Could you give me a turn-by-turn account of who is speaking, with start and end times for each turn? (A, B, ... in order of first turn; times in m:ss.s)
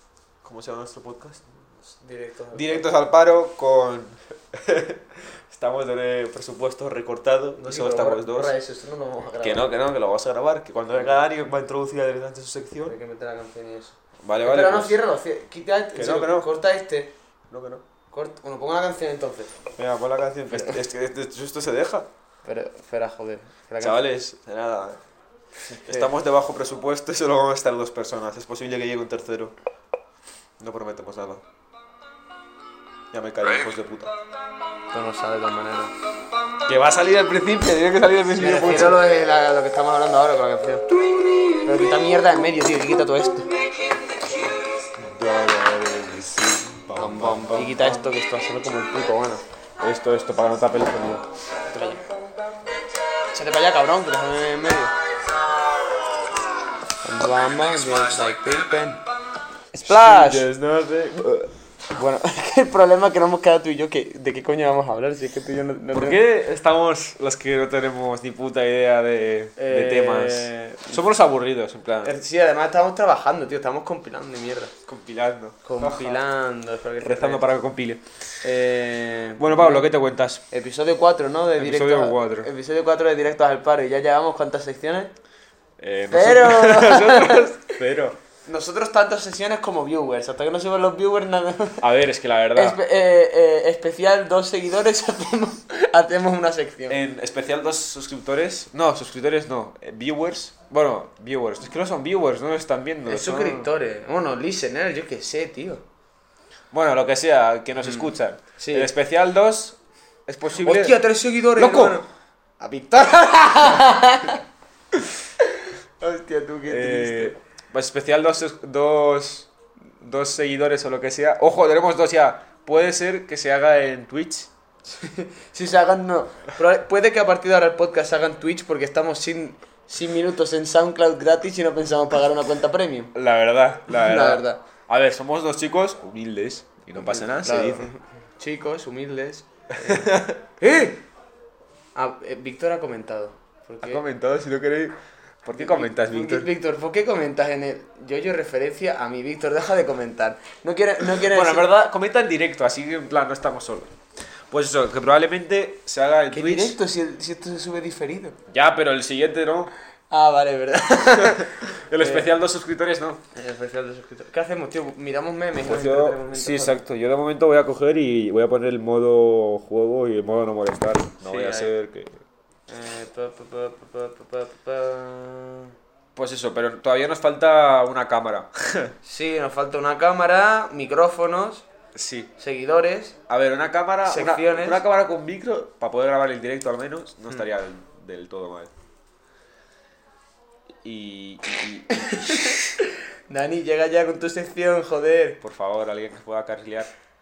0:00.4-0:01.4 A
0:01.8-0:03.0 B
0:02.5-0:08.5 A
0:07.6-0:09.7 B
0:09.4-0:12.9 A
0:12.8-0:17.1 B
0:14.2-0:15.0 A
0:15.9-0:16.5 A
0:17.5-0:17.8 A
0:18.1-0:19.5 B
0:19.8-0:22.1 A
0:22.4-0:24.0 B
0:23.8-0:25.0 A
0:25.7-0:26.1 B
0:25.8-0:29.5 A
0:30.6-0:31.4 A
0:33.1-0:34.1 A
0:34.9-0:35.9 B
0:36.6-0:39.0 A
0:38.4-0:40.9 B
0:41.6-0:43.5 B
0:45.0-0:48.0 A
0:47.0-0:49.4 B
0:49.8-0:51.2 A
0:51.7-0:52.0 B
0:53.3-0:54.9 B
0:57.0-0:59.0 B
0:59.7-1:00.5 B
0:59.8-1:01.5 A
1:01.9-1:06.2 B
1:05.9-1:12.2 A
1:09.6-1:11.0 B
1:12.0-1:14.7 B
1:14.8-1:16.2 A
1:15.6-1:17.5 B
1:17.0-1:18.0 A
1:18.4-1:19.9 B
1:19.4-1:20.4 A
1:20.5-1:25.1 B
1:21.6-1:22.5 A
1:25.8-1:28.2 A
1:26.1-1:27.6 B
1:28.4-1:31.8 B
1:31.8-1:32.8 A
1:32.5-1:37.0 B
1:36.9-1:43.7 A
1:43.1-1:45.8 B
1:46.7-1:51.0 A
1:48.6-1:48.9 B
1:50.6-1:52.1 B
1:51.5-1:52.0 A
1:52.6-1:54.4 B
1:56.0-1:57.3 B
1:56.7-1:59.5 A
2:00.0-2:04.5 A
2:04.9-2:13.1 B
2:13.1-2:17.9 A
2:13.9-2:14.6 B
2:17.0-2:21.0 B
2:19.8-2:20.4 A
2:21.9-2:24.0 B
2:23.8-2:26.5 A
2:25.5-2:31.6 B
2:31.2-2:33.9 A
2:34.5-2:36.8 A
2:36.3-2:38.4 B
2:38.5-2:39.7 A
2:40.1-2:42.3 B
2:41.3-2:43.2 A
2:43.3-2:46.8 B
2:45.6-2:52.2 A
2:51.2-2:51.7 B
2:52.7-2:55.7 B
2:56.1-2:58.9 A
2:59.0-3:01.6 B
3:01.9-3:02.3 A
3:02.4-3:03.2 B
3:03.3-3:08.7 A
3:04.0-3:04.8 B
3:10.8-3:12.6 A
3:11.9-3:15.4 B
3:15.4-3:16.9 A